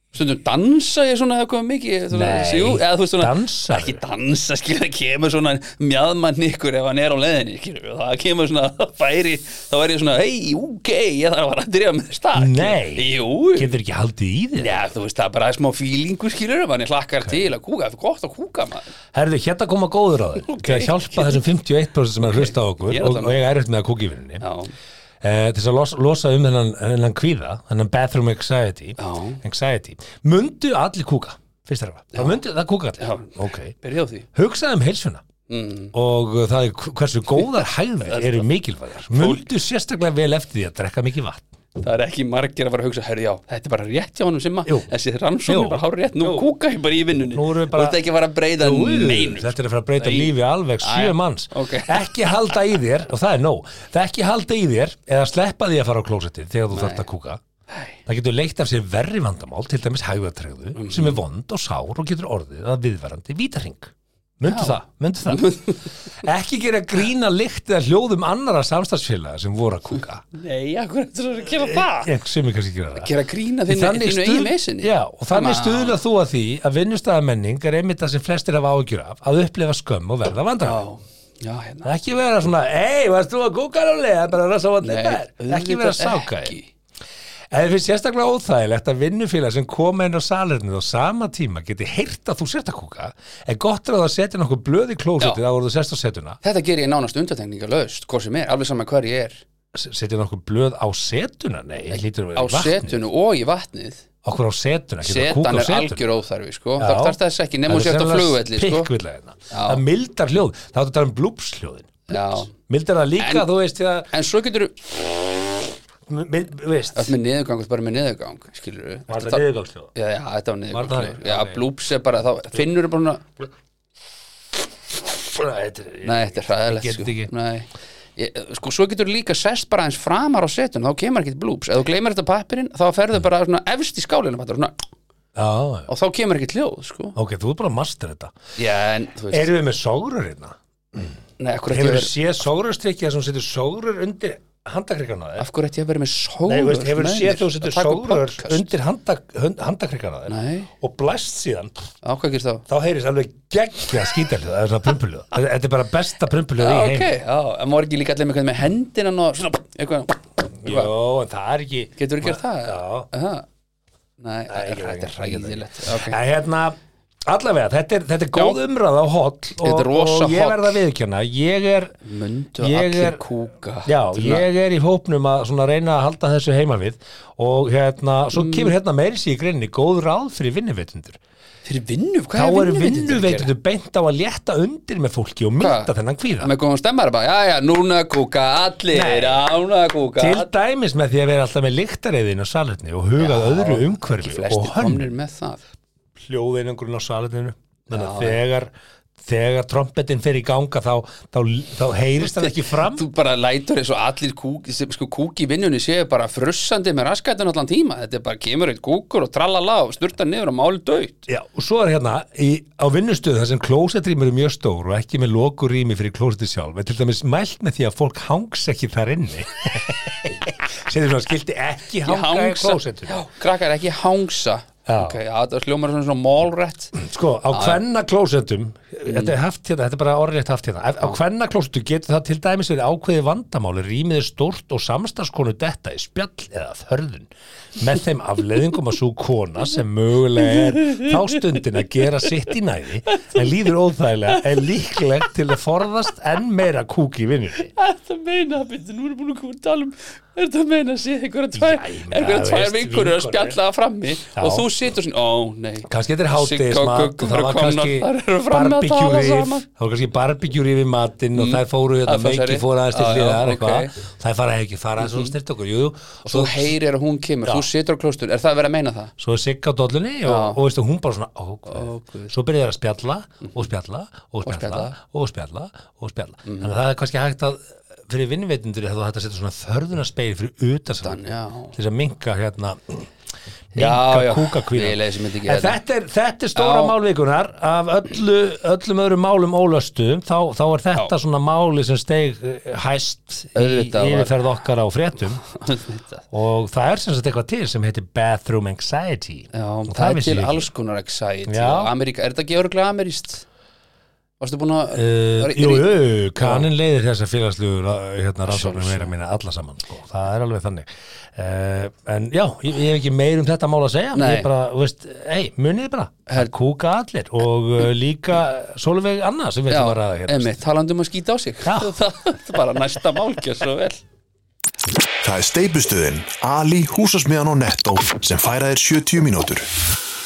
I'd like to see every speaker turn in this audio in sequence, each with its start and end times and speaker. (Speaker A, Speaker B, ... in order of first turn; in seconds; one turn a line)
Speaker A: 0.1-13.7
Speaker B: 2.1-4.0
Speaker B: 12.4-14.8
Speaker A: 14.6-18.9
Speaker B: 19.1-24.4
Speaker A: 20.4-21.4
Speaker A: 22.2-23.4
Speaker A: 24.4-24.7
Speaker B: 25.2-33.8
Speaker A: 29.0-29.4
Speaker A: 33.0-34.3
Speaker B: 34.3-35.2
Speaker A: 35.5-35.9
Speaker B: 35.9-41.5
Speaker A: 38.1-38.5
Speaker A: 39.1-39.4
Speaker A: 41.8-52.1
Speaker B: 45.5-46.5
Speaker B: 47.3-48.0
Speaker B: 48.6-57.4
Speaker A: 56.7-57.0
Speaker A: 57.7-58.0
Speaker B: 58.1-65.5
Speaker A: 60.8-61.2
Speaker A: 64.5-65.9
Speaker B: 66.2-70.2
Speaker A: 70.3-72.1
Speaker B: 71.5-73.1
Speaker A: 73.0-76.0
Speaker B: 73.7-80.8
Speaker A: 80.6-81.9
Speaker B: 81.8-86.5
Speaker A: 84.8-86.7
Speaker B: 87.5-96.4
Speaker A: 96.4-99.4
Speaker B: 99.7-103.0
Speaker A: 101.9-104.0
Speaker B: 104.2-106.0
Speaker A: 105.0-108.9
Speaker B: 106.8-114.1
Speaker A: 109.5-109.8
Speaker A: 112.1-112.5
Speaker A: 113.2-113.5
Speaker A: 114.1-115.1
Speaker B: 116.1-117.2
Speaker A: 116.9-123.3
Speaker B: 119.1-119.9
Speaker B: 120.7-121.7
Speaker B: 124.9-127.3
Speaker A: 126.0-134.8
Speaker B: 135.3-135.9
Speaker A: 135.9-137.2
Speaker B: 137.2-138.3
Speaker A: 138.6-139.5
Speaker B: 139.3-141.2
Speaker A: 141.4-142.2
Speaker B: 141.7-145.5
Speaker A: 145.4-148.7
Speaker B: 146.5-151.7
Speaker A: 150.3-150.7
Speaker A: 152.0-152.7
Speaker B: 152.7-157.1
Speaker A: 156.6-160.9
Speaker B: 160.6-163.1
Speaker A: 162.0-163.5
Speaker A: 164.2-166.2
Speaker B: 164.5-172.0
Speaker A: 169.6-170.8
Speaker A: 172.1-174.5
Speaker B: 172.6-173.2
Speaker B: 173.8-181.2
Speaker A: 178.3-178.7
Speaker A: 181.7-183.5
Speaker B: 182.3-186.5
Speaker A: 185.6-190.5
Speaker B: 188.9-189.5
Speaker B: 190.2-195.1
Speaker A: 193.2-195.6
Speaker B: 196.2-198.7
Speaker A: 197.9-198.4
Speaker B: 199.2-203.1
Speaker A: 202.2-211.2
Speaker B: 211.3-223.2
Speaker A: 222.0-227.0
Speaker B: 224.9-225.2
Speaker B: 227.0-247.7
Speaker A: 227.5-227.8
Speaker A: 229.1-229.3
Speaker A: 240.5-241.6
Speaker A: 243.1-243.5
Speaker A: 244.3-244.7
Speaker A: 247.7-259.7
Speaker B: 251.5-253.6
Speaker B: 254.3-254.7
Speaker B: 255.9-266.7
Speaker A: 261.4-264.0
Speaker A: 265.0-265.3
Speaker A: 266.2-269.1
Speaker B: 269.2-283.1
Speaker A: 270.2-270.6
Speaker A: 271.7-272.3
Speaker A: 274.4-275.0
Speaker A: 276.4-276.7
Speaker A: 281.0-281.8
Speaker B: 283.7-295.4
Speaker A: 283.8-285.8
Speaker A: 286.6-286.9
Speaker A: 293.6-294.4
Speaker A: 295.5-296.2
Speaker B: 296.3-300.7
Speaker A: 299.5-303.4
Speaker B: 301.5-301.9
Speaker A: 304.4-306.7
Speaker B: 304.9-320.6
Speaker A: 308.5-309.1
Speaker A: 314.1-314.5
Speaker A: 319.7-324.0
Speaker B: 321.6-322.0
Speaker C: 325.2-329.7